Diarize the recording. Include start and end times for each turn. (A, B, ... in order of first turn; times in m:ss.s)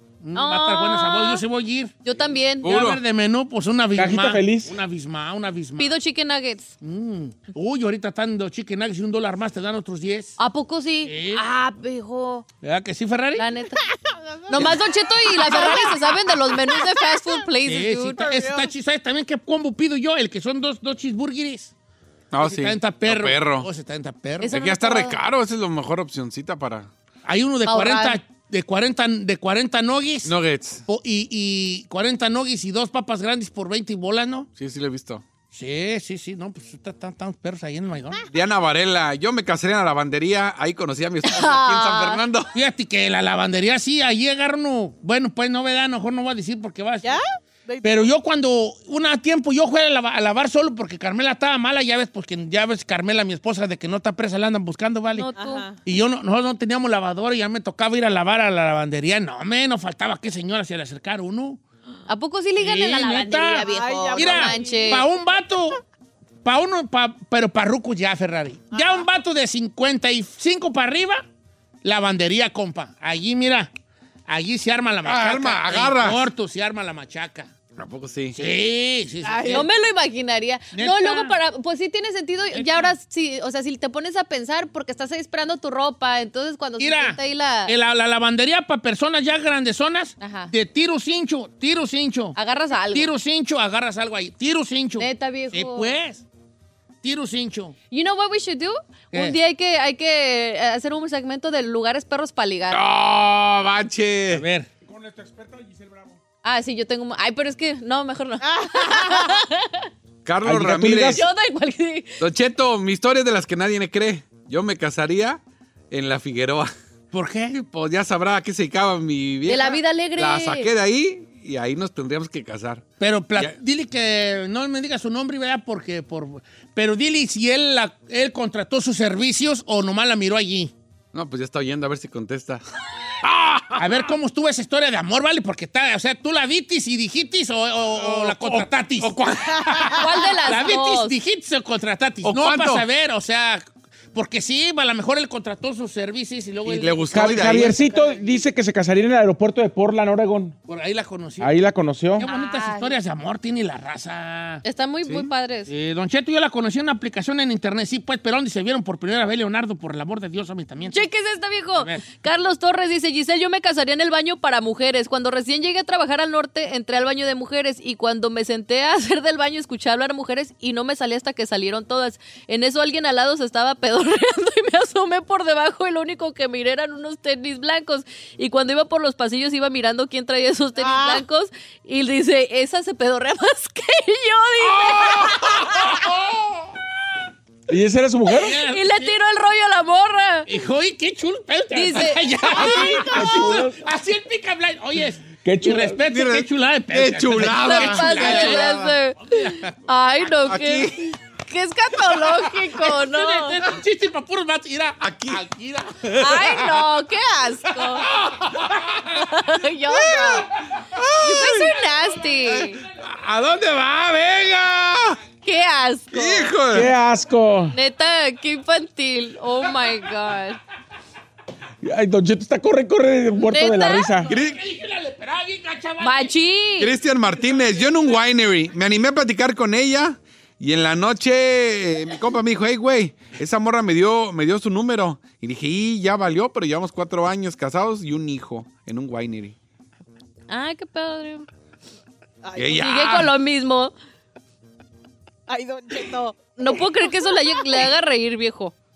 0:00.2-0:02.0 A
0:00.3-0:01.4 B
0:02.0-0:02.8 B
0:02.6-0:03.0 C
0:02.6-0:06.0 A
0:04.0-0:04.7 D
0:05.8-0:06.7 B
0:06.8-0:10.4 A
0:10.4-0:12.4 B
0:11.0-0:11.4 A
0:12.6-0:13.5 A
0:13.4-0:13.8 B
0:13.8-0:14.8 E
0:14.5-0:18.4 B
0:14.5-0:14.8 A
0:15.4-0:15.9 A
0:15.4-0:16.0 E
0:16.5-0:17.2 E
0:17.6-0:21.7 A
0:18.2-0:18.7 E
0:22.3-0:23.7 C
0:22.4-0:24.6 A
0:24.4-0:25.2 B
0:24.5-0:26.9 C
0:27.2-0:30.3 A
0:27.6-0:28.2 B
0:30.2-0:30.8 C
0:30.9-0:34.5 A
0:34.6-0:35.2 C
0:35.5-0:38.2 A
0:38.3-0:42.5 C
0:41.2-0:42.2 B
0:42.5-0:47.2 A
0:47.0-0:48.1 E
0:47.8-0:55.3 A
0:55.1-0:55.6 B
0:55.3-0:55.8 E
0:55.8-1:01.6 A
1:02.1-1:05.0 B
1:02.6-1:05.8 A
1:03.6-1:05.1 E
1:06.4-1:11.2 A
1:08.7-1:09.0 E
1:11.8-1:13.7 A
1:14.3-1:17.5 A
1:15.0-1:16.3 C
1:17.8-1:18.4 C
1:18.3-1:19.7 A
1:19.2-1:19.6 E
1:19.4-1:27.7 B
1:20.7-1:21.3 A
1:22.5-1:22.9 A
1:26.8-1:32.4 A
1:30.2-1:30.5 B
1:32.4-1:33.1 B
1:32.9-1:36.2 A
1:35.0-1:35.9 B
1:37.0-1:37.7 A
1:37.9-1:42.8 B
1:39.1-1:39.4 A
1:42.7-1:44.4 C
1:44.3-1:44.7 A
1:44.8-1:46.2 D
1:46.4-1:49.9 B
1:48.4-1:49.3 E
1:50.2-1:51.2 C
1:50.4-1:51.2 D
1:51.1-1:52.2 B
1:52.2-1:55.4 C
1:55.9-1:56.7 C
1:57.1-1:57.6 A
1:57.5-2:02.8 C
1:59.4-2:00.7 B
2:03.0-2:10.7 A
2:11.1-2:12.6 C
2:13.2-2:14.1 C
2:13.8-2:28.4 A
2:18.0-2:20.0 C
2:20.0-2:21.1 B
2:22.2-2:22.8 C
2:26.6-2:27.8 C
2:27.1-2:30.5 D
2:30.7-2:31.5 A
2:31.4-2:32.2 D
2:32.2-2:34.6 A
2:32.2-2:33.0 B
2:34.6-2:35.7 B
2:35.0-2:35.3 C
2:35.7-2:41.1 A
2:40.9-3:06.0 B
2:41.7-2:42.0 A
3:00.8-3:01.2 E
3:05.0-3:06.0 A
3:07.7-3:08.6 D
3:08.3-3:09.2 A
3:08.6-3:10.5 B
3:10.5-3:19.7 A
3:11.7-3:13.5 B
3:13.0-3:13.8 D
3:15.4-3:16.0 D
3:16.1-3:18.9 C
3:17.6-3:23.6 B
3:20.4-3:21.1 C
3:22.8-3:26.1 A
3:25.0-3:25.4 C
3:26.1-3:26.7 C
3:26.2-3:28.1 B
3:28.0-3:29.0 C
3:29.1-3:30.5 B
3:30.0-3:31.8 C
3:31.2-3:32.8 B
3:32.4-3:35.2 C
3:35.4-3:36.6 B
3:36.1-3:36.9 C
3:36.7-3:37.8 D
3:37.7-3:40.6 B
3:41.8-3:44.3 D
3:43.5-3:44.2 B
3:44.3-3:44.6 C
3:44.3-3:46.3 A
3:46.0-3:46.9 B
3:46.8-3:59.6 C
4:00.5-4:01.5 B
4:02.4-4:02.8 E
4:02.6-4:03.3 C
4:02.7-4:03.9 B
4:05.5-4:06.6 E
4:06.6-4:08.7 B